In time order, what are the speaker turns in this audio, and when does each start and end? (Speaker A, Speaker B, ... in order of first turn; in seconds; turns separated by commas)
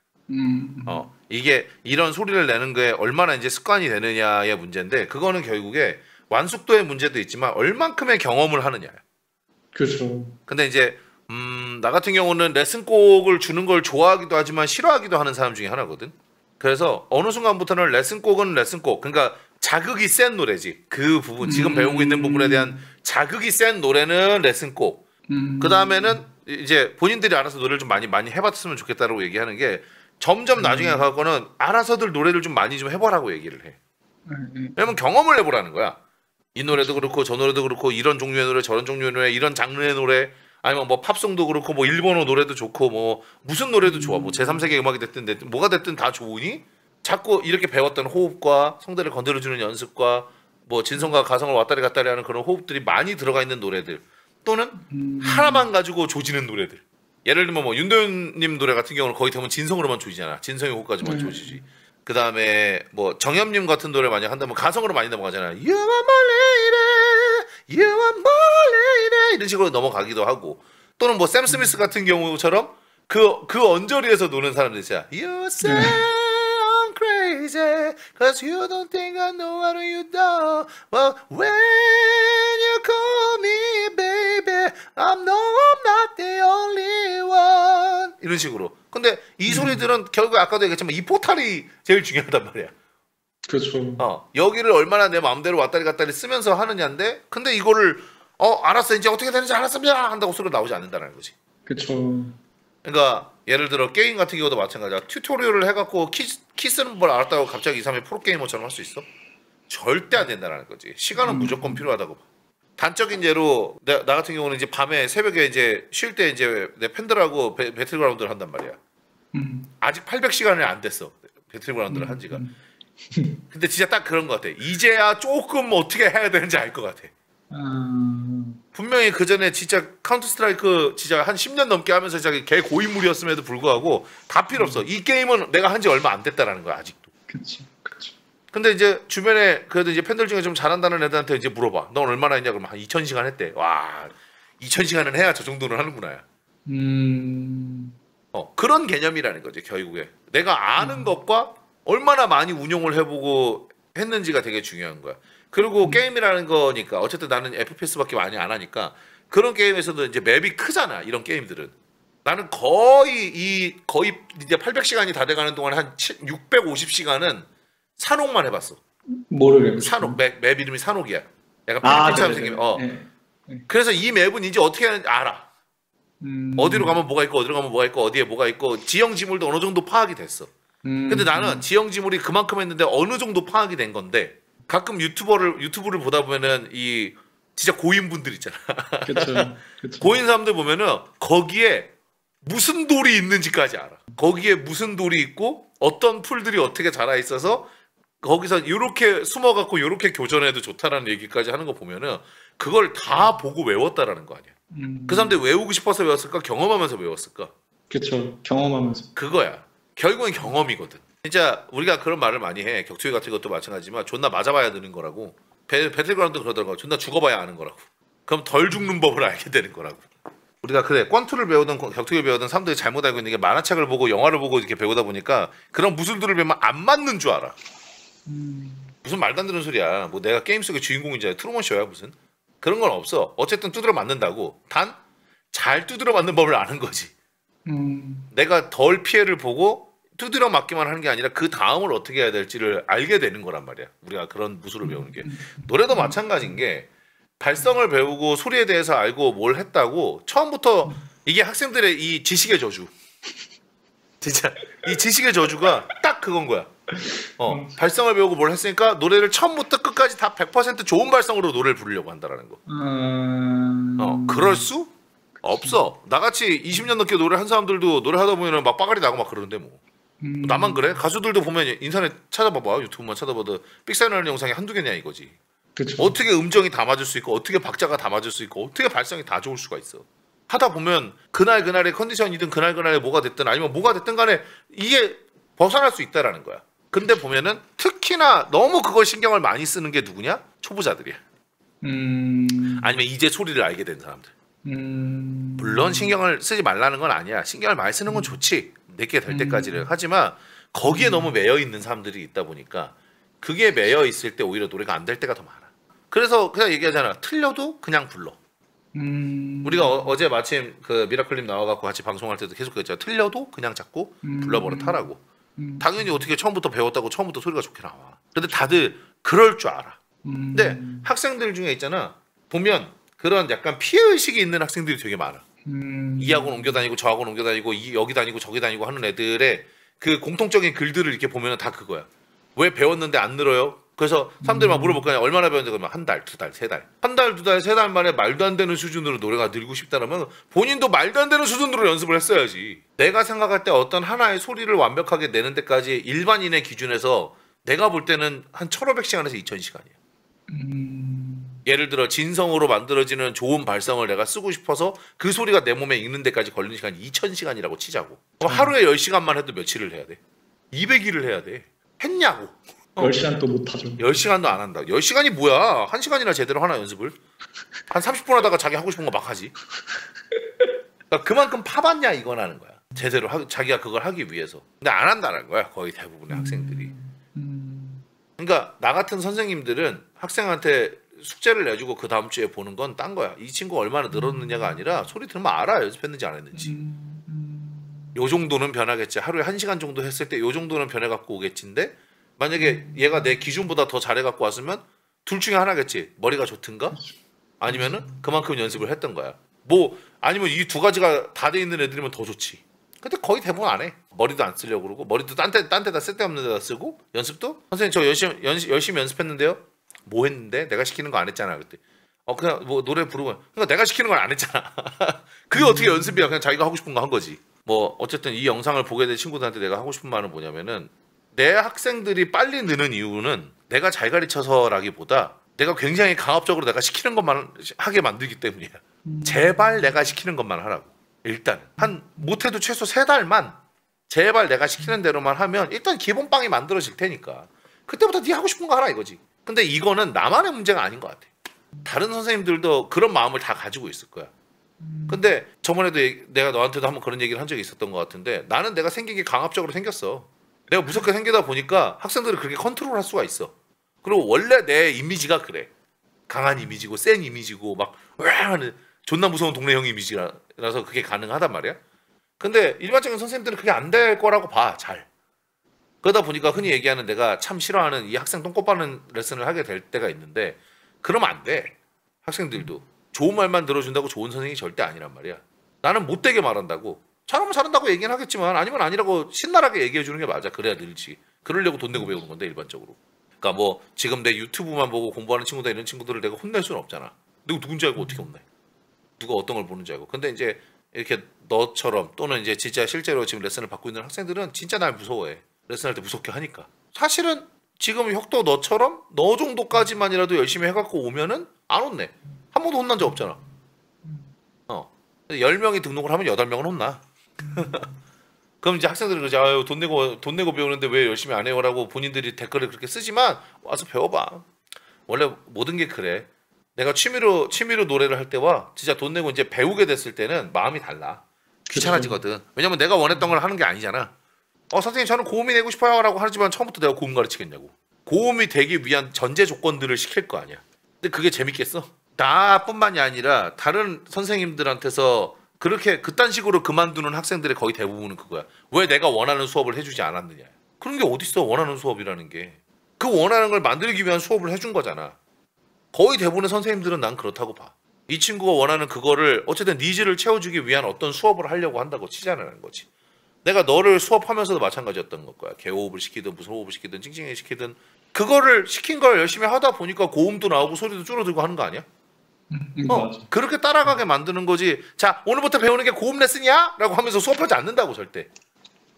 Speaker A: 0.3-1.1, Speaker B: 0.9-9.0, Speaker A: 9.7-10.3, Speaker B: 10.5-25.0, Speaker A: 21.4-22.8, Speaker A: 25.3-26.2, Speaker B: 25.6-33.8, Speaker A: 30.6-31.1, Speaker A: 34.3-34.9, Speaker B: 34.8-36.0, Speaker B: 36.5-92.7, Speaker A: 36.7-37.1, Speaker A: 43.8-44.7, Speaker A: 54.9-55.7, Speaker A: 61.0-61.6, Speaker A: 71.5-71.7, Speaker A: 75.6-76.0, Speaker A: 89.5-89.8, Speaker A: 93.5-94.0, Speaker B: 94.0-101.3, Speaker A: 101.7-102.3, Speaker B: 102.8-109.0, Speaker B: 109.7-112.2, Speaker A: 111.2-111.8, Speaker B: 112.8-118.8, Speaker A: 119.3-119.7, Speaker B: 119.8-122.4, Speaker A: 121.9-122.5, Speaker B: 123.5-127.1, Speaker A: 127.5-128.6, Speaker B: 128.7-137.1, Speaker A: 134.5-134.8, Speaker A: 137.3-138.1, Speaker B: 138.5-146.2, Speaker A: 146.7-147.9, Speaker B: 148.3-161.7, Speaker A: 150.8-151.1, Speaker B: 162.2-168.8, Speaker A: 169.3-170.2, Speaker B: 169.8-172.8, Speaker A: 171.8-173.7, Speaker B: 173.7-175.5, Speaker A: 176.2-177.0, Speaker B: 176.6-180.5, Speaker A: 180.8-181.7, Speaker B: 181.1-189.5, Speaker A: 189.0-190.2, Speaker B: 190.0-191.9, Speaker B: 192.4-197.7, Speaker B: 198.2-204.5, Speaker A: 204.7-205.4, Speaker B: 205.1-207.5, Speaker A: 207.9-209.1, Speaker B: 209.1-220.1, Speaker B: 220.6-227.6, Speaker A: 228.2-228.9, Speaker B: 229.0-234.9, Speaker B: 235.5-237.1, Speaker A: 237.7-238.3, Speaker B: 238.3-246.9, Speaker A: 244.8-246.6, Speaker B: 247.4-252.9, Speaker B: 254.2-256.7, Speaker A: 256.9-257.8, Speaker B: 257.4-262.6, Speaker A: 262.7-264.7, Speaker B: 264.0-264.9, Speaker B: 265.4-269.8, Speaker A: 265.6-265.8, Speaker A: 270.2-271.0, Speaker B: 270.4-275.3, Speaker A: 275.8-276.2, Speaker B: 276.0-291.2, Speaker A: 291.8-292.9, Speaker B: 292.8-294.3, Speaker A: 294.6-296.2, Speaker B: 295.6-308.4, Speaker A: 298.1-298.4, Speaker A: 299.3-299.9, Speaker A: 300.8-301.3, Speaker A: 308.9-310.2, Speaker B: 309.6-315.2, Speaker A: 314.2-315.0, Speaker A: 315.6-316.3, Speaker B: 315.8-320.0, Speaker A: 320.2-321.1, Speaker B: 320.5-325.4, Speaker A: 325.6-326.8, Speaker B: 326.2-349.9, Speaker A: 334.4-335.1, Speaker A: 350.5-351.6, Speaker B: 351.6-360.2, Speaker A: 358.4-358.7, Speaker B: 360.7-363.2, Speaker A: 363.0-364.3, Speaker B: 364.0-367.1, Speaker B: 367.9-369.5, Speaker B: 371.1-376.9, Speaker A: 376.3-378.0, Speaker B: 378.4-386.7, Speaker A: 384.1-384.9, Speaker A: 386.5-388.2, Speaker B: 388.1-397.0, Speaker A: 392.6-393.5, Speaker B: 397.6-433.5, Speaker A: 397.7-398.3, Speaker A: 415.5-416.3, Speaker A: 429.0-430.0, Speaker A: 431.8-432.4, Speaker B: 434.1-441.3, Speaker B: 441.8-444.3, Speaker A: 444.8-445.3, Speaker B: 445.1-453.5, Speaker B: 454.0-455.7, Speaker B: 456.3-461.8, Speaker A: 456.6-456.8, Speaker B: 462.4-465.1, Speaker B: 466.0-488.4, Speaker A: 481.9-482.2, Speaker A: 487.9-488.2, Speaker B: 489.2-503.4, Speaker A: 503.0-503.4, Speaker B: 504.7-507.0, Speaker A: 507.4-508.0, Speaker B: 507.5-507.9, Speaker B: 508.6-514.5, Speaker B: 515.1-524.1, Speaker A: 521.7-522.2, Speaker B: 524.7-545.1, Speaker B: 545.9-552.9, Speaker B: 553.4-561.8, Speaker A: 562.5-563.3, Speaker B: 562.9-568.3